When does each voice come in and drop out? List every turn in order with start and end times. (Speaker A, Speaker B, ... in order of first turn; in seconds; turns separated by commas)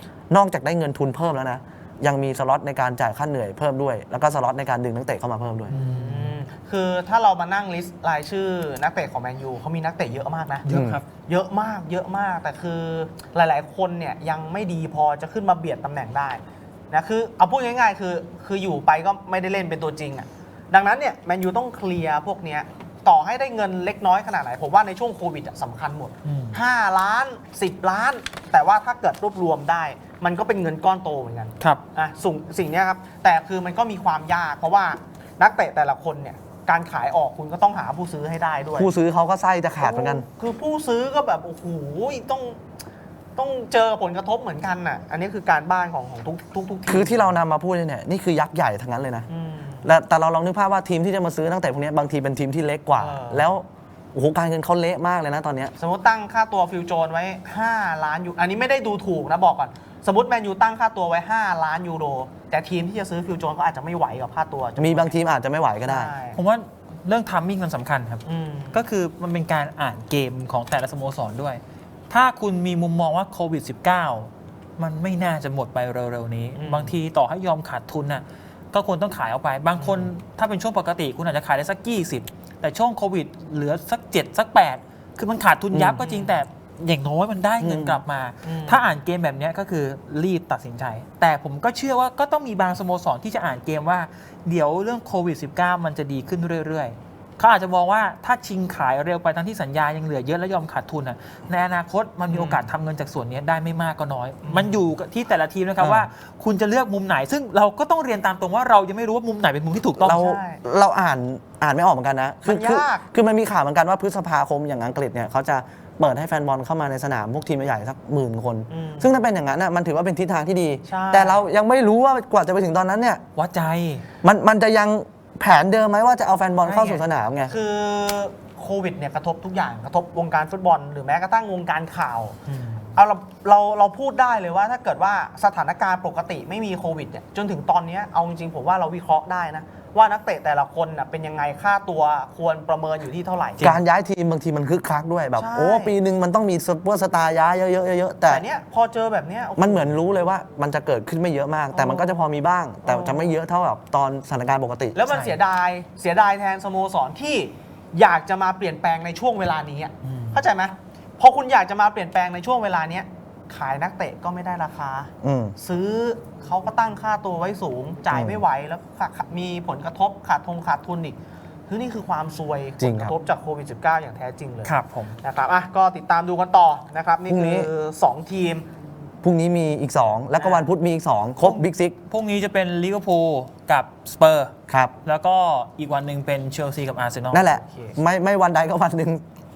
Speaker A: 0.3-5.7, Speaker B: 5.7-6.4, Speaker C: 5.7-10.7, Speaker B: 10.6-11.1, Speaker A: 10.7-11.0, Speaker C: 11.2-38.9, Speaker B: 26.2-26.6, Speaker A: 38.8-40.3, Speaker C: 39.8-42.6, Speaker C: 43.4-47.4, Speaker A: 46.9-49.3, Speaker C: 49.3-49.9, Speaker A: 49.8-55.7, Speaker C: 53.0-53.5, Speaker C: 55.8-65.1, Speaker A: 64.8-66.1, Speaker C: 65.8-66.4, Speaker B: 66.3-110.2, Speaker C: 68.3-68.8, Speaker C: 76.5-77.0, Speaker C: 79.8-80.1, Speaker A: 85.7-86.0, Speaker C: 86.0-86.4, Speaker A: 87.6-88.0, Speaker C: 88.4-88.9, Speaker C: 102.3-102.7, Speaker C: 104.4-104.8, Speaker A: 105.8-106.1, Speaker A: 110.0-123.2, Speaker C: 110.0-110.6, Speaker C: 112.5-113.1, Speaker C: 118.7-119.2, Speaker C: 120.9-121.5, Speaker B: 123.4-124.1, Speaker A: 124.2-127.5, Speaker B: 126.7-127.0, Speaker C: 127.5-132.4, Speaker B: 132.5-133.0, Speaker C: 132.9-143.7, Speaker A: 143.6-148.4, Speaker C: 145.4-145.9, Speaker C: 148.3-150.1, Speaker A: 149.6-155.0, Speaker C: 151.7-152.2, Speaker C: 152.8-153.3, Speaker C: 154.9-178.7, Speaker B: 155.1-155.3, Speaker B: 160.0-160.4, Speaker A: 165.2-165.6, Speaker A: 168.1-168.4, Speaker A: 172.8-173.2, Speaker B: 174.7-175.2, Speaker A: 177.3-177.7, Speaker A: 179.2-182.0, Speaker C: 180.4-180.7, Speaker B: 181.4-184.5, Speaker A: 184.7-184.9, Speaker B: 185.1-187.4, Speaker A: 187.3-189.2, Speaker C: 187.4-188.0